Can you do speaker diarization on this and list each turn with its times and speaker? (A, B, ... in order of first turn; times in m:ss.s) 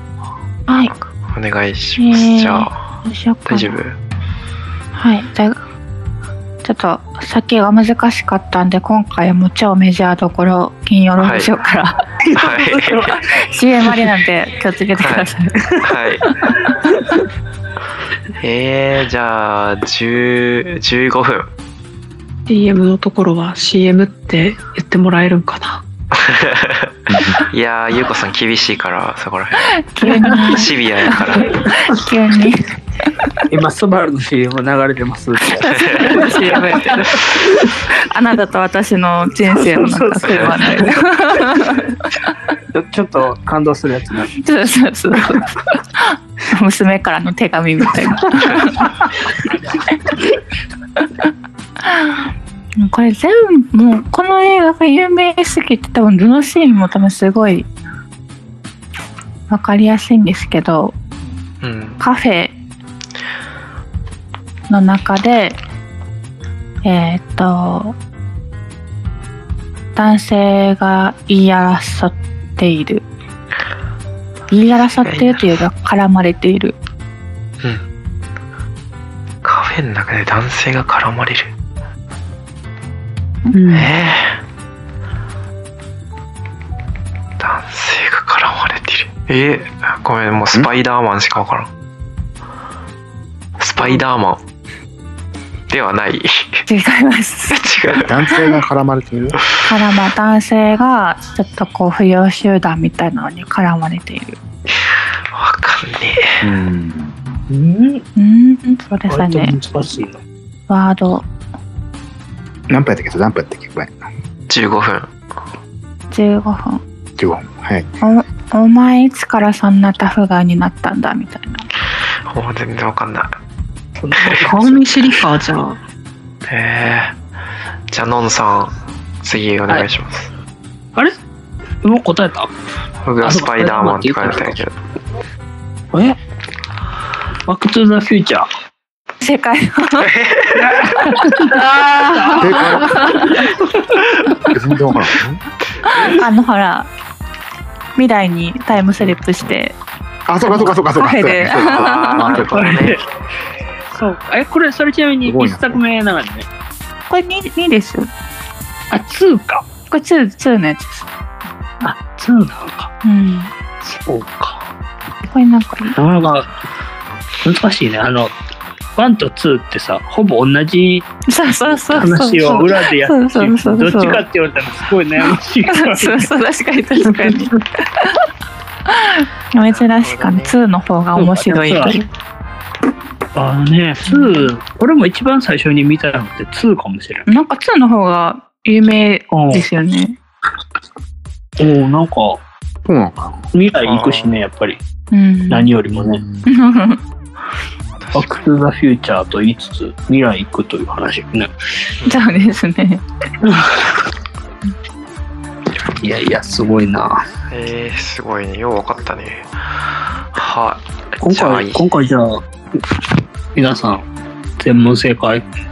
0:00.7-0:00.9 A
0:01.3-0:02.7 B
0:02.0-0:03.8 A
0:03.4-0:04.0 B
0:04.9-0:05.6 A
0:06.6-0:12.1 A
0:11.2-0:11.5 B
0:12.3-0:13.2 C
0:12.3-0:13.1 B
0:13.1-0:15.8 A
0:15.0-0:15.3 B
0:15.8-0:16.2 B
0:16.4-0:17.1 A
0:18.4-0:21.5 B
0:22.5-0:25.8 D
0:26.2-0:29.8 B
0:27.1-0:27.4 E
0:29.8-0:33.3 A
0:30.0-0:30.6 C
0:30.5-0:31.5 B
0:33.5-0:37.7 C
0:35.6-0:36.9 A
0:35.7-0:36.2 B
0:38.0-0:42.0 A
0:39.5-0:40.9 C
0:40.2-0:40.5 B
0:42.7-0:44.4 C
0:44.4-0:49.0 A
0:51.8-0:57.7 A
0:59.5-1:01.0 A
1:01.6-1:02.0 B
1:02.0-1:02.5 A
1:04.7-1:05.6 A
1:06.8-1:08.0 A
1:09.9-1:13.0 A
1:14.5-1:16.8 A
1:15.0-1:15.4 B
1:19.4-1:21.5 B
1:23.5-1:23.9 D
1:23.7-1:24.4 B
1:27.4-1:31.7 B
1:33.6-1:34.4 B
1:35.7-1:36.6 B
1:36.7-1:38.6 A
1:37.5-1:38.1 B
1:38.0-1:39.4 E
1:39.6-1:44.4 A
1:45.3-1:46.4 B
1:46.4-1:47.1 E
1:47.5-1:48.0 C
1:48.2-1:49.5 A
1:49.1-1:50.2 C
1:50.7-1:51.3 A
1:52.7-1:53.9 E
1:54.5-1:55.1 B
1:56.1-1:56.8 A
1:57.2-1:57.9 E
1:58.0-2:01.7 A
2:02.3-2:03.3 B
2:04.0-2:05.3 C
2:04.4-2:05.8 D
2:06.5-2:07.1 B
2:07.9-2:10.3 B
2:11.8-2:12.5 C
2:13.0-2:14.8 B
2:13.2-2:14.6 C
2:15.9-2:16.2 C
2:17.5-2:18.5 C
2:19.2-2:20.1 A
2:20.0-2:20.9 B
2:20.6-2:23.8 C
2:21.0-2:23.4 A
2:22.4-2:23.1 E
2:24.5-2:25.4 E
2:25.8-2:26.9 A
2:28.0-2:29.8 A
2:30.3-2:32.8 E
2:30.4-2:32.4 A
2:31.4-2:33.0 B
2:32.4-2:33.0 C
2:33.9-2:36.5 C
2:35.2-2:35.8 E
2:37.1-2:38.1 A
2:38.9-2:39.6 C
2:39.9-2:41.0 A
2:41.8-2:42.9 C
2:43.0-2:43.5 A
2:43.8-2:44.7 C
2:45.3-2:46.0 A
2:46.0-2:46.5 C
2:47.4-2:48.3 C
2:49.0-2:51.1 C
2:51.3-2:54.2 A
2:51.7-2:56.3 C
2:55.7-2:58.0 A
2:57.2-2:57.5 C
2:58.9-3:02.0 A
2:59.7-3:00.6 B
3:01.2-3:02.0 C
3:03.3-3:07.3 C
3:04.0-3:04.5 A
3:07.3-3:10.2 A
3:09.3-3:09.7 C
3:11.6-3:12.4 C
3:12.8-3:13.4 E
3:13.5-3:14.8 C
3:13.8-3:14.3 B
3:15.1-3:15.7 A
3:15.5-3:16.2 C
3:16.0-3:16.4 E
3:16.4-3:17.0 A
3:18.0-3:18.4 B
3:18.1-3:21.5 C
3:22.0-3:22.5 B
3:22.0-3:23.0 A
3:23.4-3:24.0 C
3:26.0-3:27.2 C
3:27.5-3:29.4 B
3:30.3-3:31.9 B
3:31.2-3:32.4 C
3:33.5-3:34.1 C
3:34.6-3:35.4 C
3:34.7-3:35.0 B